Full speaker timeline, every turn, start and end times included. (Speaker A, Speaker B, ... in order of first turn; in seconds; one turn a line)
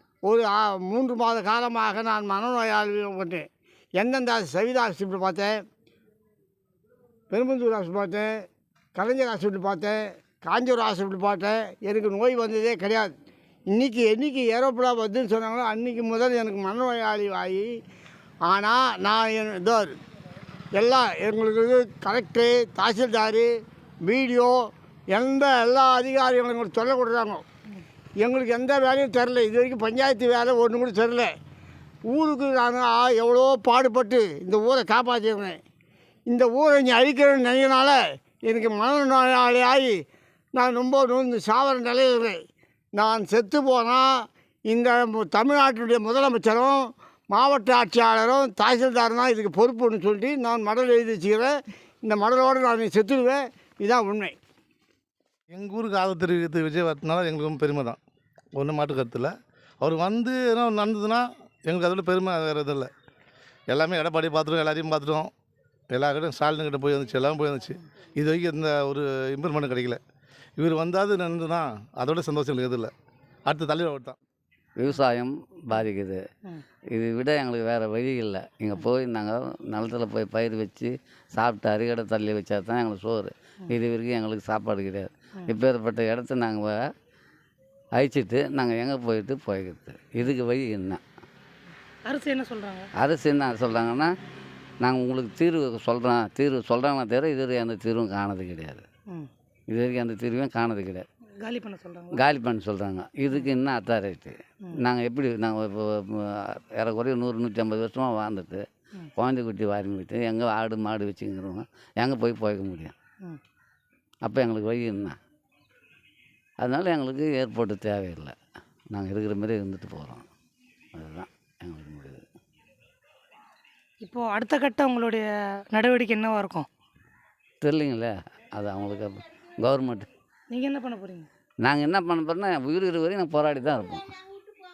Speaker A: 0.3-3.5
Speaker A: 4.0-5.5
Speaker A: 7.3-8.3
Speaker A: 9.0-13.2
Speaker A: 13.7-17.7
Speaker A: 18.5-19.9
Speaker A: 20.8-23.5
Speaker A: 24.1-24.6
Speaker A: 25.1-27.4
Speaker A: 28.2-31.3
Speaker A: 32.1-35.6
Speaker A: 36.3-40.0
Speaker A: 40.5-42.4
Speaker A: 43.0-44.1
Speaker A: 44.7-54.4
Speaker B: 55.5-58.0
Speaker B: 58.5-62.9
Speaker B: 63.7-65.3
Speaker B: 65.9-70.0
Speaker B: 70.6-72.9
Speaker B: 73.5-74.2
Speaker C: 74.8-76.2
Speaker C: 77.0-86.7
Speaker C: 88.0-91.0
Speaker D: 92.0-92.9
Speaker C: 93.0-94.1
Speaker C: 94.8-98.8
Speaker C: 99.7-101.0
Speaker D: 101.4-102.2
Speaker C: 102.2-108.6
Speaker C: 109.2-112.9
Speaker C: 114.2-115.2
Speaker C: 116.6-118.3
Speaker C: 118.9-120.3
Speaker C: 120.9-122.2
Speaker D: 124.0-126.7
Speaker C: 127.6-130.1
Speaker D: 130.5-131.3
Speaker C: 131.7-134.1